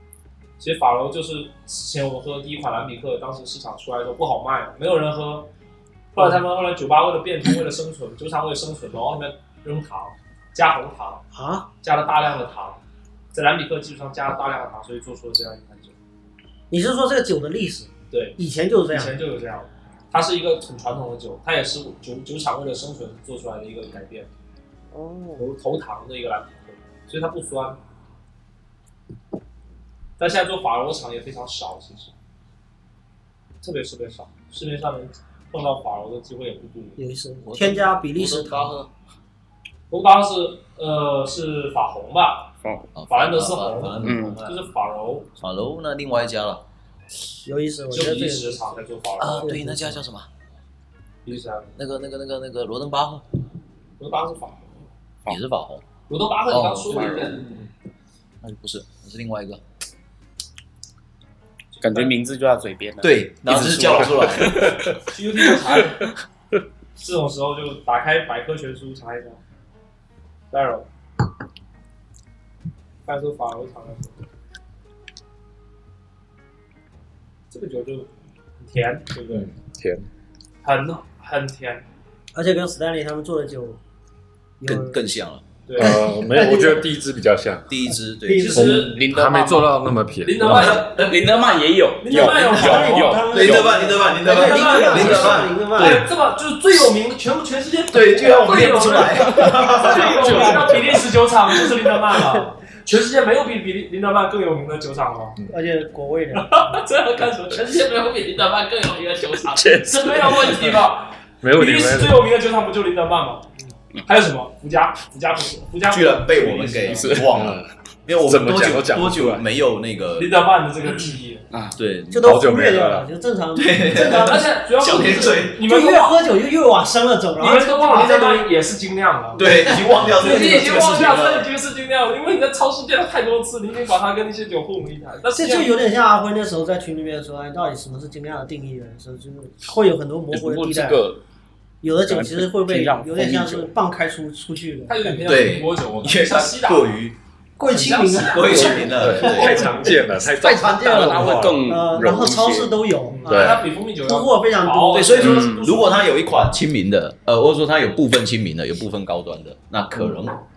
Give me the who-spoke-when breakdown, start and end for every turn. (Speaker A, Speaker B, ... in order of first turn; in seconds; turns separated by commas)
Speaker A: 0.6-5.5, Speaker A: 6.1-11.2, Speaker B: 11.3-11.7, Speaker A: 11.8-12.8, Speaker A: 13.3-15.9, Speaker B: 16.7-19.1, Speaker A: 18.1-18.4, Speaker A: 18.9-24.3, Speaker B: 24.9-25.5, Speaker A: 25.4-27.8, Speaker A: 30.2-32.1, Speaker A: 33.6-37.0, Speaker B: 37.0-38.8, Speaker C: 37.4-38.9, Speaker A: 39.9-42.5, Speaker D: 42.6-42.9, Speaker C: 42.9-44.6, Speaker A: 43.1-45.3, Speaker D: 44.0-44.4, Speaker C: 45.4-46.6, Speaker B: 47.4-48.7, Speaker A: 47.9-49.6, Speaker C: 49.2-50.3, Speaker B: 49.4-50.0, Speaker A: 51.2-51.8, Speaker C: 51.8-53.2, Speaker A: 54.0-54.7, Speaker C: 55.3-55.8, Speaker A: 56.1-57.6, Speaker C: 56.5-57.2, Speaker D: 56.9-57.5, Speaker C: 58.4-59.6, Speaker A: 61.7-62.1, Speaker D: 61.8-64.8, Speaker C: 63.0-64.7, Speaker A: 64.9-66.1, Speaker A: 67.0-69.4, Speaker A: 70.5-70.9, Speaker A: 73.0-74.2, Speaker A: 77.5-79.5, Speaker E: 79.3-80.0, Speaker A: 80.6-81.8, Speaker B: 82.3-83.8, Speaker B: 84.6-85.0, Speaker C: 84.6-85.4, Speaker A: 85.7-86.0, Speaker B: 85.8-86.9, Speaker E: 85.8-87.7, Speaker C: 87.7-88.8, Speaker B: 88.2-88.9, Speaker A: 88.3-89.0, Speaker E: 88.5-90.8, Speaker D: 88.8-89.7, Speaker A: 90.2-93.2, Speaker C: 90.5-91.0, Speaker D: 90.5-93.9, Speaker B: 92.4-96.0, Speaker C: 93.3-96.1, Speaker A: 94.2-105.4, Speaker C: 97.9-100.6, Speaker E: 100.3-100.6, Speaker B: 105.5-106.6, Speaker A: 106.3-117.2, Speaker D: 109.4-110.7, Speaker E: 111.4-112.2, Speaker C: 115.9-120.3, Speaker D: 117.0-117.3, Speaker E: 117.3-117.7, Speaker E: 118.2-119.4, Speaker A: 120.2-121.4, Speaker D: 121.5-121.8, Speaker C: 121.8-122.5, Speaker B: 122.1-124.5, Speaker E: 122.2-123.1, Speaker C: 123.5-125.6, Speaker A: 123.9-126.2, Speaker B: 125.6-128.5, Speaker A: 127.4-135.7, Speaker C: 129.3-131.5, Speaker B: 129.4-131.1, Speaker B: 135.3-141.1, Speaker D: 140.3-141.2, Speaker B: 141.8-145.4, Speaker D: 142.1-143.7, Speaker A: 144.9-146.9, Speaker C: 145.2-147.2, Speaker B: 147.6-155.2, Speaker A: 147.7-150.0, Speaker C: 148.2-149.6, Speaker E: 148.5-151.8, Speaker D: 150.9-152.8, Speaker A: 153.1-156.1, Speaker E: 153.2-153.7, Speaker C: 154.9-160.4, Speaker D: 155.2-155.7